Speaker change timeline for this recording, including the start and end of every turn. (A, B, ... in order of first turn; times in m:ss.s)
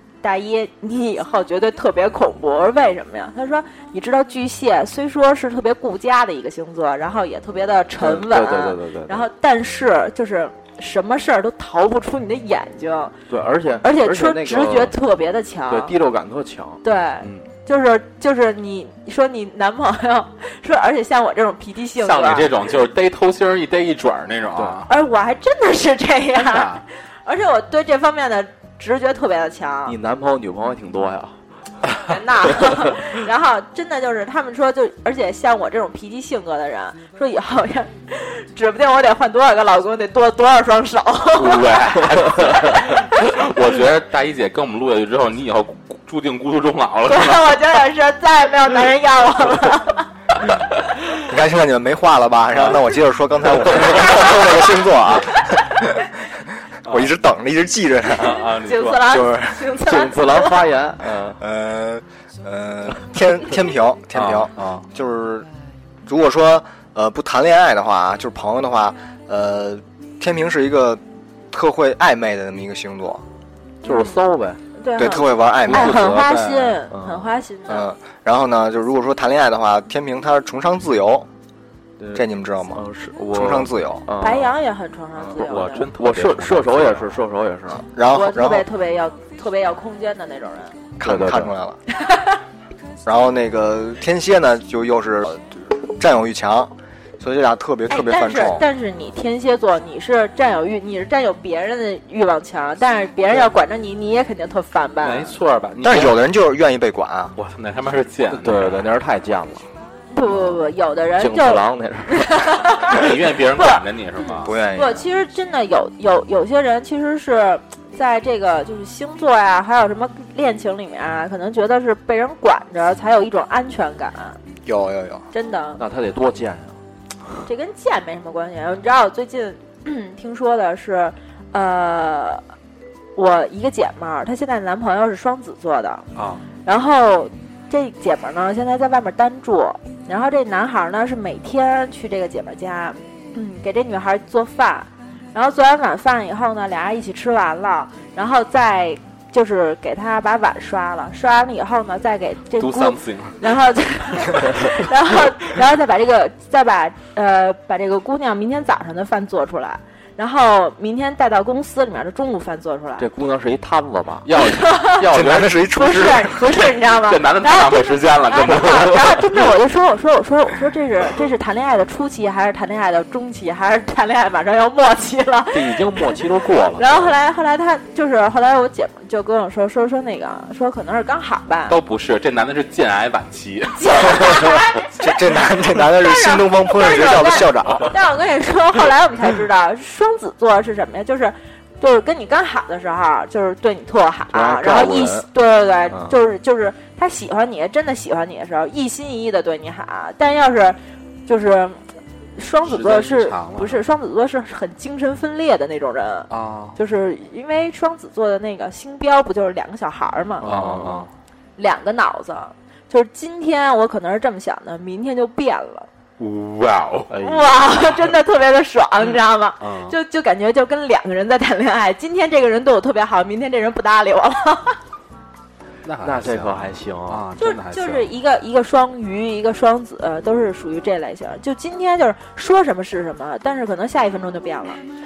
0:00.2-0:13.2 A
0:08.0-0:09.3 B
0:13.3-0:14.9 B
0:13.8-0:15.9 A
0:15.7-0:16.8 B
0:16.8-0:22.5 A
0:17.2-0:17.5 C
0:22.0-0:24.9 C
0:24.5-0:24.8 B
0:24.9-0:30.0 A
0:26.3-0:26.8 C
0:29.8-0:31.4 B
0:32.0-0:41.9 A
0:32.6-0:32.9 B
0:41.3-0:47.6 C
0:47.1-0:50.1 A
0:51.2-0:56.0 D
0:52.5-0:52.8 C
0:56.8-0:57.1 C
0:56.8-0:58.4 D
0:58.1-0:59.2 C
0:58.2-1:00.7 A
0:59.0-0:59.7 D
0:59.8-1:01.4 B
1:01.0-1:05.5 D
1:04.1-1:04.8 C
1:06.0-1:13.2 D
1:13.8-1:14.6 B
1:13.8-1:14.2 A
1:14.8-1:17.9 A
1:15.0-1:16.3 D
1:15.7-1:16.8 C
1:16.9-1:17.4 B
1:17.7-1:21.3 D
1:22.0-1:24.6 B
1:22.1-1:24.1 D
1:24.2-1:25.9 A
1:25.2-1:27.8 B
1:25.3-1:27.1 C
1:27.7-1:28.7 D
1:28.1-1:30.8 A
1:31.0-1:31.8 D
1:31.0-1:31.5 B
1:33.0-1:38.6 D
1:37.9-1:45.3 A
1:45.0-1:46.2 C
1:45.8-1:47.3 D
1:47.4-1:48.9 C
1:48.3-1:49.7 B
1:50.1-2:04.4 A
1:51.2-1:52.3 B
1:52.9-1:54.5 C
1:54.4-1:55.0 D
2:04.6-2:05.2 D
2:05.3-2:05.8 A
2:05.8-2:06.8 B
2:07.4-2:12.4 A
2:13.2-2:16.0 A
2:16.1-2:16.4 C
2:16.6-2:43.1 A
2:32.6-2:33.4 C
2:43.0-2:44.3 B
2:44.2-2:49.2 C
2:44.4-2:45.1 A
2:45.0-2:46.4 D
2:45.7-2:56.2 A
2:55.5-2:57.1 B
2:56.8-3:01.8 A
3:01.7-3:04.6 C
3:03.8-3:30.5 A
3:05.0-3:07.9 D
3:07.6-3:07.9 C
3:14.3-3:15.3 B
3:15.9-3:16.2 B
3:22.6-3:23.8 C
3:26.3-3:26.8 C
3:30.4-3:31.1 B
3:30.4-3:31.1 C
3:31.6-3:35.9 A
3:36.2-3:37.1 C
3:37.1-3:37.6 B
3:37.2-3:44.8 A
3:39.6-3:39.9 C
3:45.8-3:48.1 C
3:46.0-3:47.2 B
3:47.4-3:54.8 A